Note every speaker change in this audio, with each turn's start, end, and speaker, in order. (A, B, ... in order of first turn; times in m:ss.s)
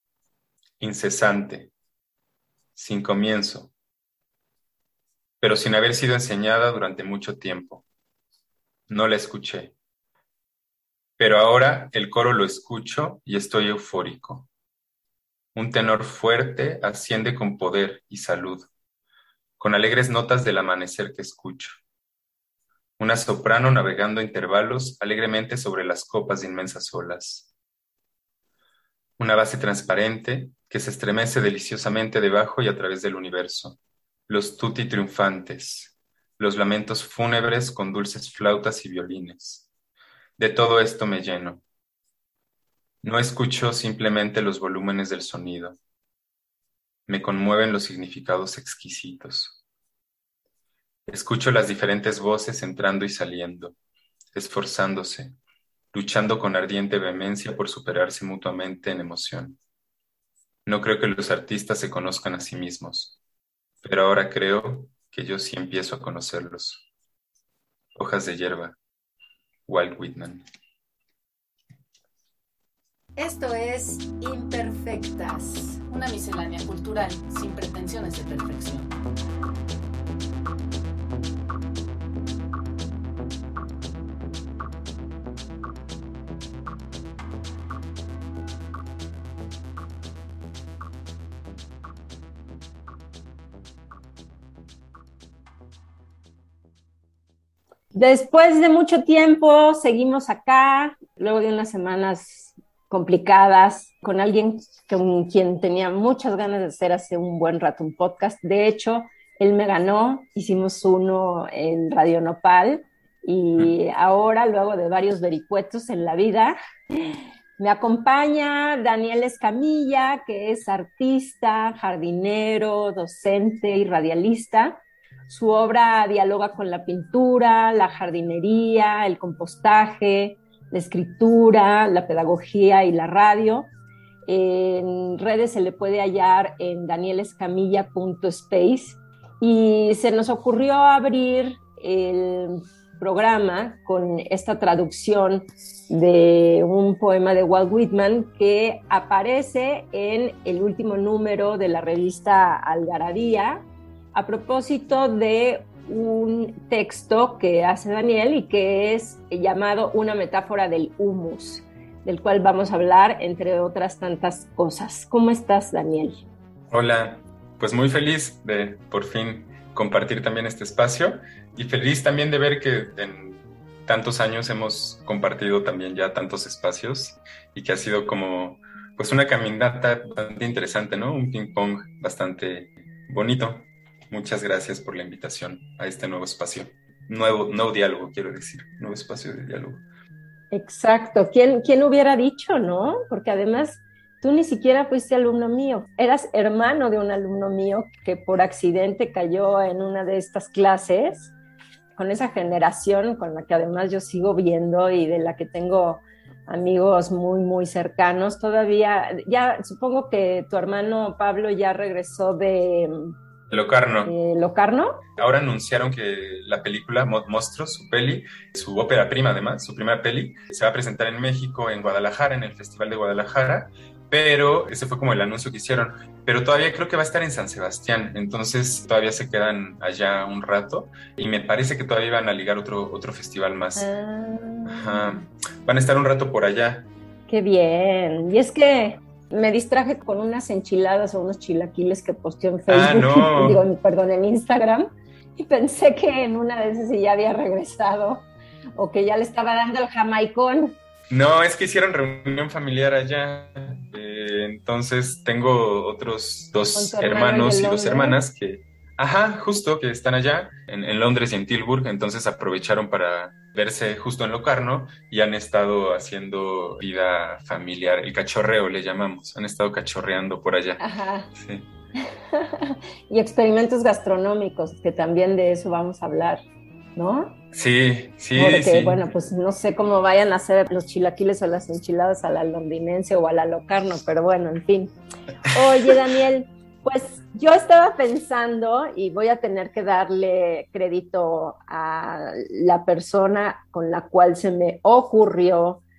0:00.8-0:01.7 A
0:02.8-0:03.7 A
0:05.4-0:07.8 A
0:08.9-0:09.7 A
0:11.2-0:14.5 A
0:15.6-0:18.7 A
0:19.6-0:21.8 A
0:23.0-0:27.5 A
0:29.2-0:39.7 A
0:40.4-0:41.6 A
0:43.0-0:45.8 A
0:47.1-0:49.6 A
0:51.1-0:53.8 A
0:54.3-0:55.3 A
0:55.9-0:59.6 A
1:00.7-1:03.2 A
1:03.8-1:06.9 A
1:08.0-1:08.8 A
1:09.7-1:10.4 A
1:13.2-1:18.9 B
1:13.2-1:13.6 C
1:14.2-1:15.8 C
1:37.9-2:13.7 C
2:14.3-2:46.2 C
2:46.7-3:09.8 A
3:10.5-3:21.3 C
3:22.0-3:33.1 C
3:33.5-3:34.1 A
3:34.1-3:35.0 C
3:35.2-3:53.9 A
3:53.8-3:55.2 C
3:54.6-3:56.9 A
3:57.3-4:10.8 C
4:02.7-4:03.6 A
4:11.1-4:30.8 A
4:16.8-4:18.2 C
4:30.8-4:31.3 C
4:31.3-4:31.7 A
4:32.0-4:36.4 C
4:37.0-4:37.4 C
4:37.5-4:39.0 A
4:38.4-4:44.9 C
4:45.5-4:55.8 C